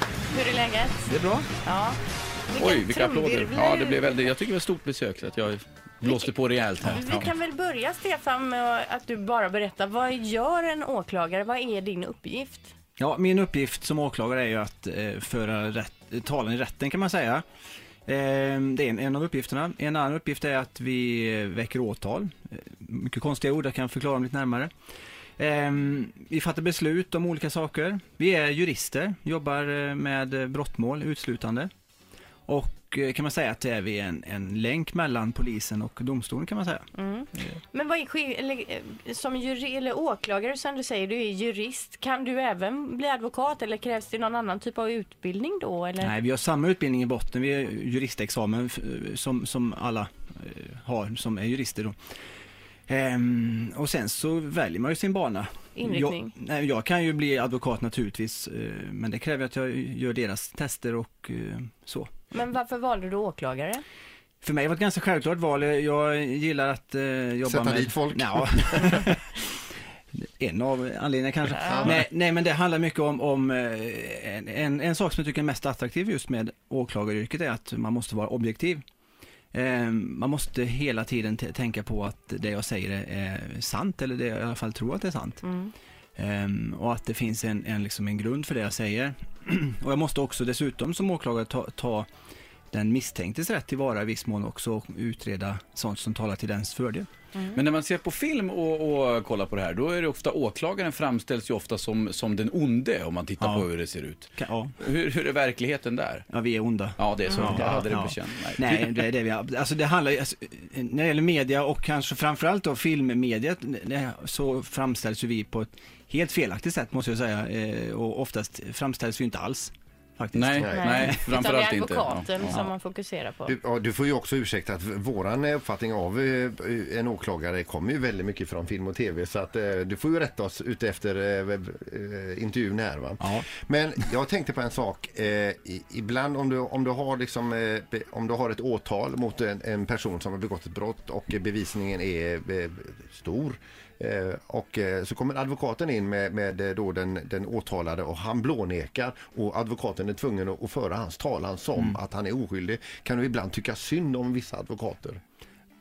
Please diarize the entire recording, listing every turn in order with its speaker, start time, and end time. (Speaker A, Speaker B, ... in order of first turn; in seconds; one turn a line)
Speaker A: 0.3-2.0
Speaker B: 1.1-1.5
Speaker A: 2.5-4.3
Speaker C: 2.6-7.3
Speaker A: 6.0-6.3
Speaker A: 6.9-12.7
Speaker B: 13.0-17.4
Speaker B: 18.1-24.7
Speaker B: 25.4-31.7
Speaker B: 32.5-37.6
Speaker A: 37.0-46.1
Speaker B: 46.0-52.0
Speaker B: 52.9-62.2
Speaker A: 55.8-56.4
Speaker A: 62.3-63.8
Speaker B: 64.4-69.4
Speaker D: 67.5-69.1
Speaker B: 70.2-78.8
Speaker D: 71.7-72.0
Speaker B: 79.5-85.4
Speaker A: 85.4-85.7
Speaker B: 86.2-92.1
Speaker B: 92.7-97.1
Speaker C: 97.5-104.3
Speaker B: 103.4-103.7
Speaker B: 104.3-104.8
Speaker C: 104.8-106.2
Speaker B: 106.3-121.4
Speaker C: 107.0-109.0
Speaker C: 120.3-122.6
Speaker D: 120.6-121.1
Speaker A: 120.7-123.5
Speaker D: 123.5-155.2
Speaker B: 133.2-133.5